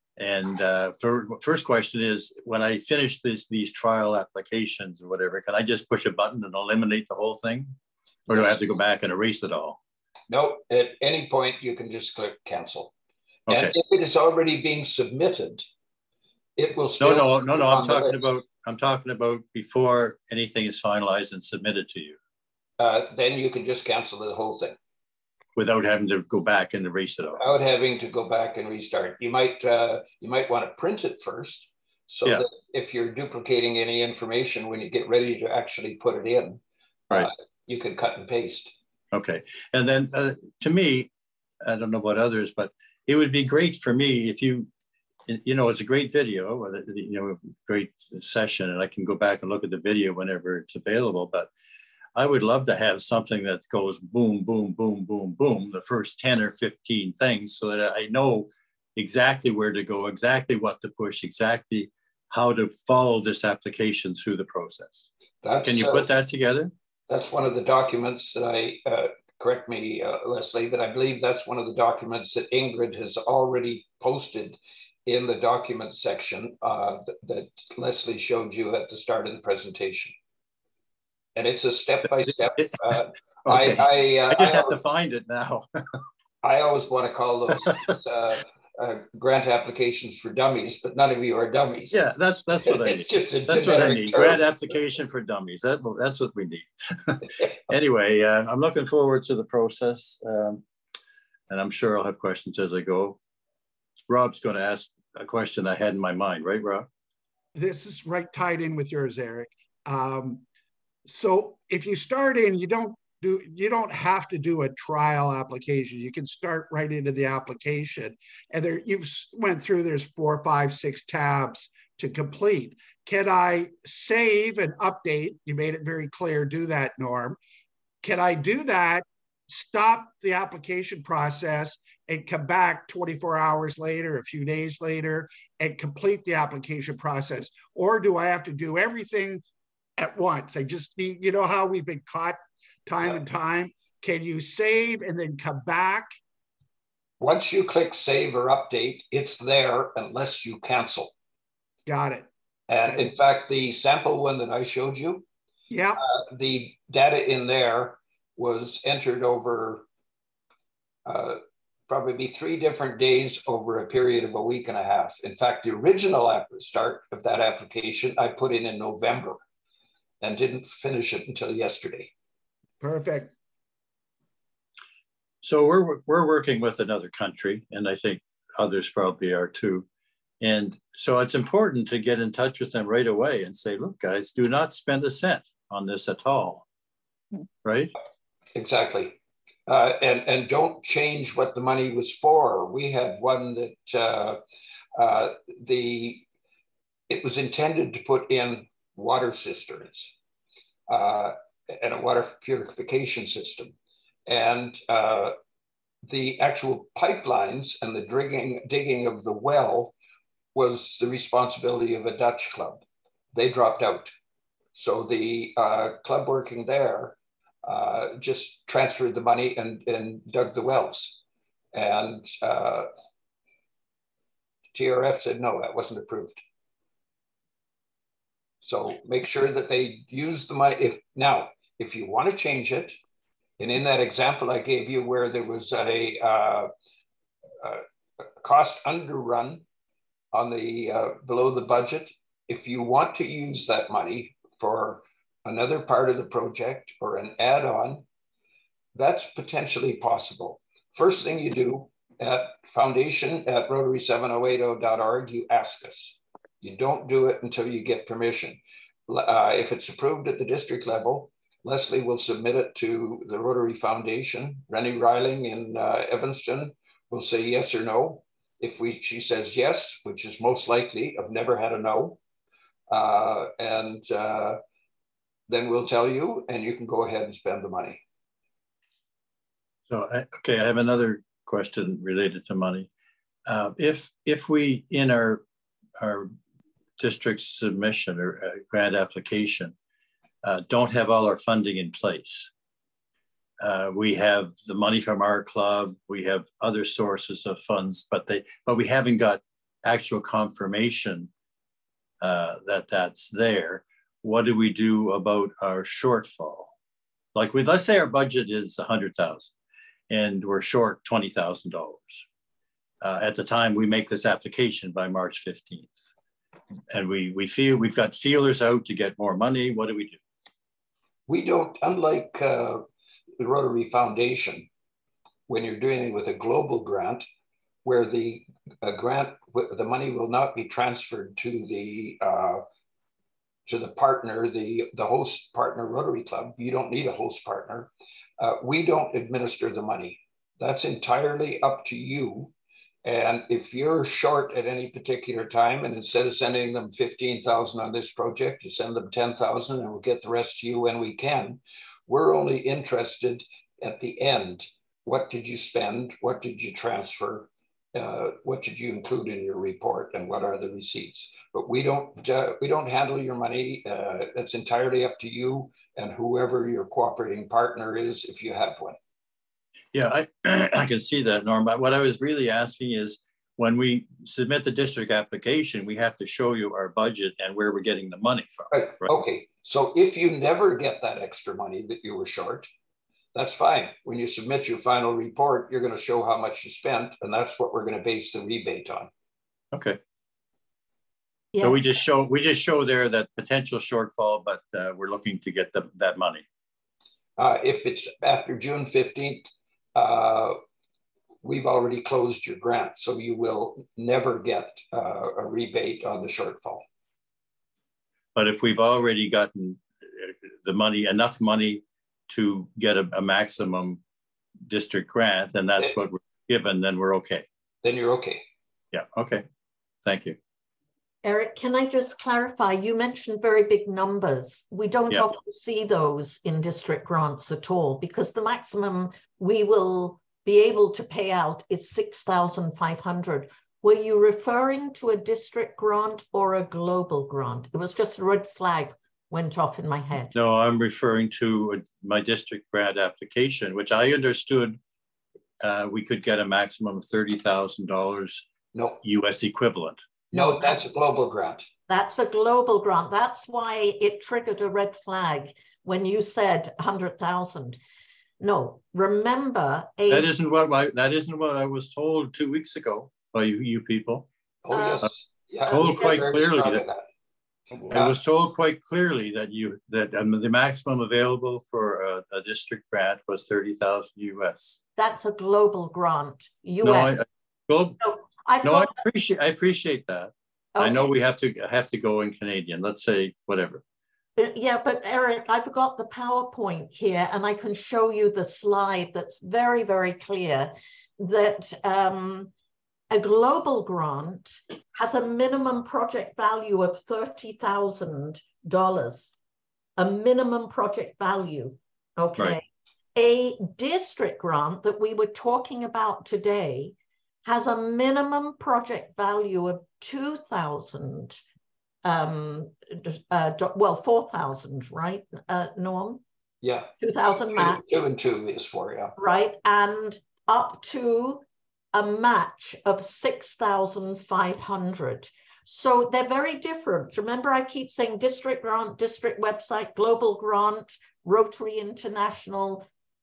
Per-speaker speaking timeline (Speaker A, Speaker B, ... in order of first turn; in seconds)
Speaker A: 0.2-7.8, 8.3-9.8, 17.0-22.2, 25.6-27.4, 39.1-41.1, 41.6-44.7, 45.3-51.5, 52.2-65.1, 65.6-66.7, 83.5-85.7, 91.9-100.6, 101.5-103.2, 104.1-106.9, 175.4-179.9, 180.4-186.7, 187.6-187.9, 279.9-282.9, 283.5-285.4, 286.0-286.3, 287.0-289.8, 290.4-292.5, 293.6-301.3, 302.2-306.7, 307.4-309.5, 310.1-312.2, 313.0-316.0, 316.9-320.2, 369.9-378.7, 389.7-390.0, 391.6-396.4, 408.4-414.0, 414.7-417.5, 418.9-419.5, 420.0-420.4, 440.3-444.8, 445.6-448.5, 449.0-450.0, 460.1-464.3, 465.7-466.8, 467.8-474.8, 476.8-478.0, 478.6-483.8
Speaker B: 10.3-12.9, 13.5-15.6, 16.6-18.3, 22.8-24.8, 27.4-38.7, 65.4-66.2, 67.1-80.1, 81.3-84.8, 86.4-92.0, 92.7-94.4, 147.2-151.1, 152.7-155.2, 156.0-159.8, 161.1-169.4, 170.2-172.1, 188.5-194.4, 195.0-196.3, 197.1-200.1, 200.9-203.7, 204.3-205.3, 206.0-209.9, 210.5-214.1, 214.7-221.2, 221.7-222.9, 224.7-226.4, 228.6-233.0, 233.6-236.7, 238.4-239.6, 240.3-248.1, 248.9-272.2, 272.9-274.6, 275.5-278.0, 321.3-322.8, 323.4-324.7, 325.5-327.2, 327.8-332.6, 333.7-342.5, 343.0-369.0, 378.7-382.7, 383.4-389.1, 397.4-400.6, 401.4-406.8, 417.8-418.4, 448.7-449.0, 450.3-451.7, 464.6-467.1, 467.9-468.2, 516.6-516.9, 517.5-519.1
Speaker C: 107.5-110.4, 111.0-127.4, 128.0-139.4, 140.0-146.1, 151.9-152.3, 155.7-156.0, 172.8-173.3
Speaker D: 391.5-391.8, 421.2-440.4, 450.3-450.8, 451.9-457.8, 458.4-460.3, 464.7-465.1, 465.8-466.2, 475.0-477.2, 478.0-479.0, 480.8-481.1, 484.4-492.5, 493.1-499.3, 500.0-511.4, 512.0-516.2, 517.0-517.9, 519.2-532.9